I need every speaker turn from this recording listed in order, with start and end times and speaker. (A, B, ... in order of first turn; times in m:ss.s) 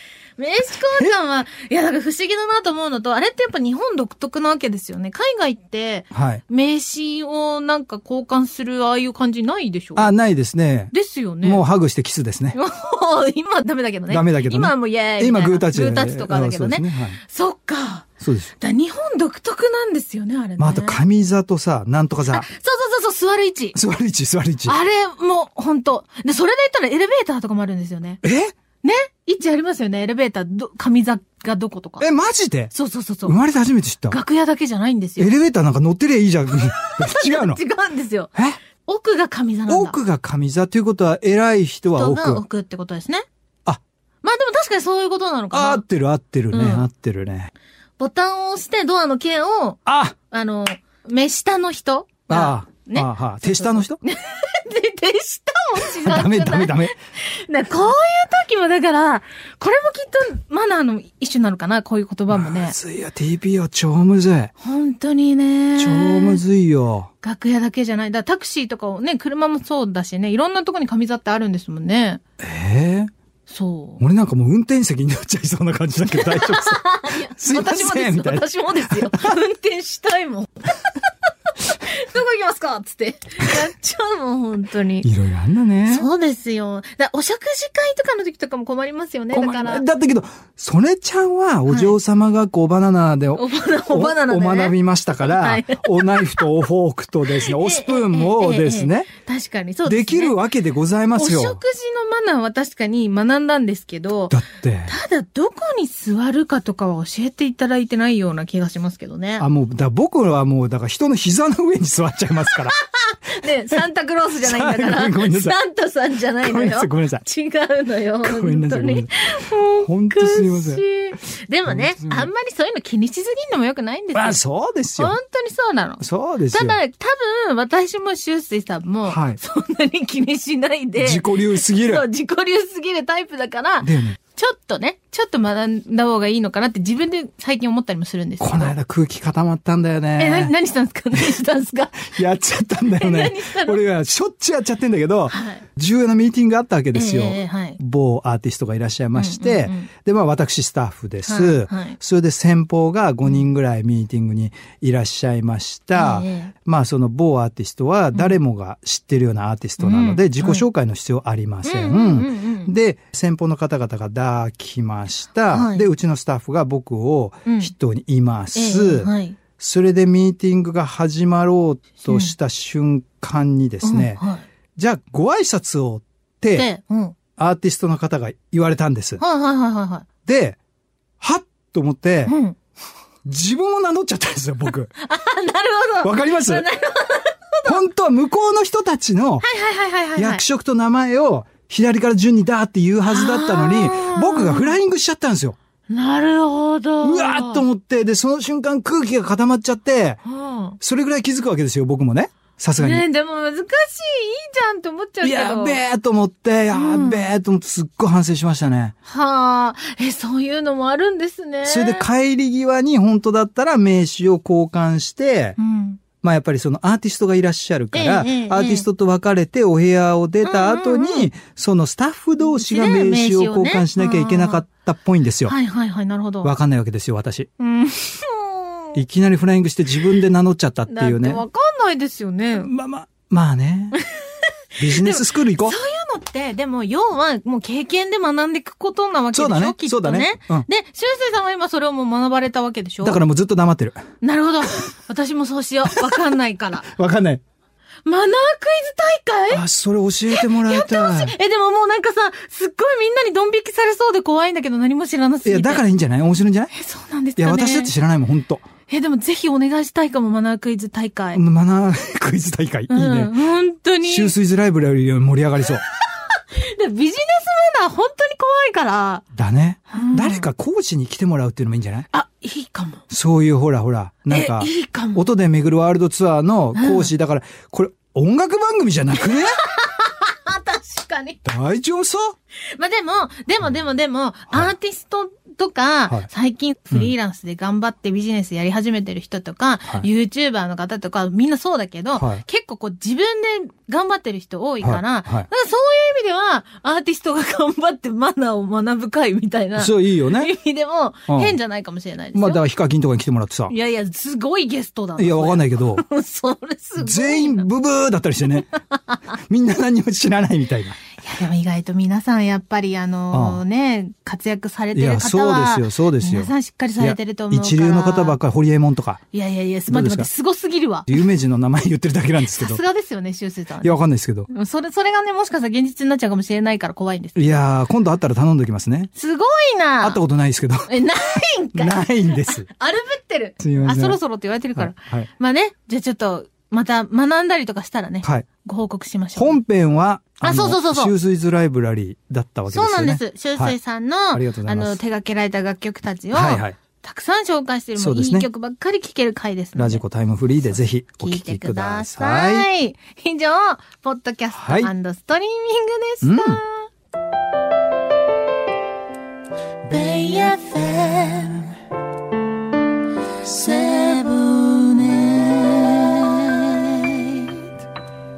0:00.4-0:10.1 A
0:06.1-0:06.4 B
0:10.0-0:12.6 B
0:10.9-0:11.6 A
0:12.5-0:21.0 A
0:14.1-0:17.2 B
0:18.2-0:18.5 B
0:20.6-0:22.5 B
0:22.3-0:23.8 A
0:23.7-0:24.8 B
0:24.6-0:28.2 A
0:28.2-0:28.5 B
0:28.8-0:32.1 A
0:32.0-0:32.7 B
0:32.7-0:33.4 A
0:33.2-0:34.2 B
0:34.1-0:35.3 A
0:35.2-0:37.6 B
0:36.5-0:40.0 A
0:39.7-0:42.4 B
0:42.0-0:43.2 A
0:44.2-0:45.8 A
0:45.5-0:47.5 B
0:46.5-0:46.9 A
0:48.0-1:02.8 A
0:49.9-0:50.2 B
0:52.3-0:54.0 B
0:55.8-0:56.9 B
1:02.3-1:04.5 B
1:04.6-1:06.4 A
1:05.8-1:07.1 B
1:07.2-1:12.2 A
1:12.4-1:13.1 B
1:13.5-1:14.0 A
1:14.0-1:19.3 B
1:16.1-1:25.1 A
1:25.0-1:26.1 B
1:25.9-1:29.8 A
1:29.3-1:39.1 B
1:31.7-1:32.0 A
1:33.4-1:36.5 A
1:37.3-1:40.4 A
1:39.8-1:41.6 B
1:41.2-1:49.5 A
1:44.3-1:45.0 B
1:49.4-1:52.8 B
1:52.4-2:04.4 A
1:54.4-1:55.6 B
1:56.4-1:57.2 B
1:58.2-1:59.1 B
1:59.8-2:00.8 B
2:01.7-2:02.3 B
2:04.1-2:05.2 B
2:05.0-2:18.8 A
2:06.0-2:06.8 B
2:09.1-2:09.4 B
2:11.0-2:12.0 B
2:13.8-2:14.2 B
2:18.4-2:20.5 B
2:20.2-2:22.3 A
2:22.1-2:54.2 B
2:22.8-2:23.8 A
2:25.3-2:25.6 A
2:26.9-2:27.8 A
2:29.2-2:29.9 A
2:31.2-2:32.0 A
2:36.0-2:36.5 A
2:39.8-2:40.7 A
2:41.6-2:42.7 A
2:45.5-2:45.9 A
2:47.5-2:47.7 A
2:48.5-2:49.4 A
2:52.0-2:52.4 A
2:53.8-2:54.5 A
2:54.8-2:56.7 B
2:56.5-2:57.2 A
2:57.4-2:59.2 B
2:59.2-3:00.1 A
3:00.3-3:00.6 B
3:01.2-3:02.4 B
3:02.3-3:02.6 A
3:03.2-3:04.9 B
3:05.0-3:07.8 A
3:06.0-3:06.7 B
3:07.6-3:09.5 B
3:09.4-3:10.4 A
3:10.2-3:15.6 B
3:13.0-3:14.8 A
3:15.9-3:17.6 A
3:17.0-3:20.2 B
3:20.3-3:20.8 A
3:20.8-3:23.1 B
3:22.8-3:25.8 A
3:25.2-3:28.9 B
3:26.7-3:27.3 A
3:29.0-3:32.1 A
3:31.6-3:35.6 B
3:35.6-3:36.0 A
3:36.2-3:45.6 B
3:37.9-3:38.9 A
3:40.4-3:41.3 A
3:42.4-3:44.6 A
3:45.4-3:46.5 A
3:46.4-3:47.5 B
3:47.6-3:49.0 A
3:49.0-3:51.4 B
3:50.9-3:52.7 A
3:52.5-3:54.0 B
3:53.9-4:03.2 A
3:54.8-3:55.8 B
3:59.3-4:00.7 B
4:03.0-4:04.0 B
4:04.2-4:06.9 A
4:05.9-4:06.2 B
4:06.8-4:07.4 B
4:08.1-4:09.6 A
4:09.5-4:11.4 B
4:10.3-4:15.8 A
4:15.4-4:16.7 B
4:16.7-4:17.9 A
4:17.4-4:18.7 B
4:18.9-4:21.4 A
4:21.3-4:23.4 B
4:22.9-4:24.4 A
4:24.0-4:25.8 B
4:26.2-4:29.2 A
4:29.4-4:32.1 B
4:29.9-4:30.5 A
4:32.1-4:33.0 A
4:33.1-4:39.6 B
4:34.3-4:35.2 A
4:36.8-4:37.1 A
4:39.2-4:41.4 A
4:41.4-4:42.4 B
4:42.7-5:02.6 A
4:52.2-4:52.4 B
4:54.8-4:55.5 B
4:59.8-5:00.5 B
5:01.3-5:01.6 B
5:02.4-5:03.7 B
5:03.7-5:07.7 A
5:05.2-5:06.0 B
5:07.0-5:08.7 B
5:08.7-5:09.2 A
5:09.4-5:11.0 B
5:11.2-5:18.4 A
5:13.3-5:13.6 B
5:14.9-5:19.2 B
5:19.3-5:21.2 A
5:19.9-5:20.3 B
5:21.1-5:22.8 B
5:22.5-5:27.6 A
5:23.8-5:24.5 B
5:27.4-5:29.1 B
5:29.2-5:30.2 A
5:30.0-5:30.9 B
5:30.9-5:39.6 A
5:31.7-5:32.7 B
5:33.6-5:34.2 B
5:34.8-5:35.3 B
5:39.4-5:43.8 B
5:40.4-5:41.1 A
5:42.7-5:50.0 A
5:44.3-5:45.0 B
5:46.3-5:46.8 B
5:48.0-5:48.5 B
5:49.8-5:52.7 B
5:51.1-5:56.9 A
5:54.5-5:54.9 B
5:56.2-5:56.6 B
5:59.8-6:01.7 A
6:03.4-6:07.6 A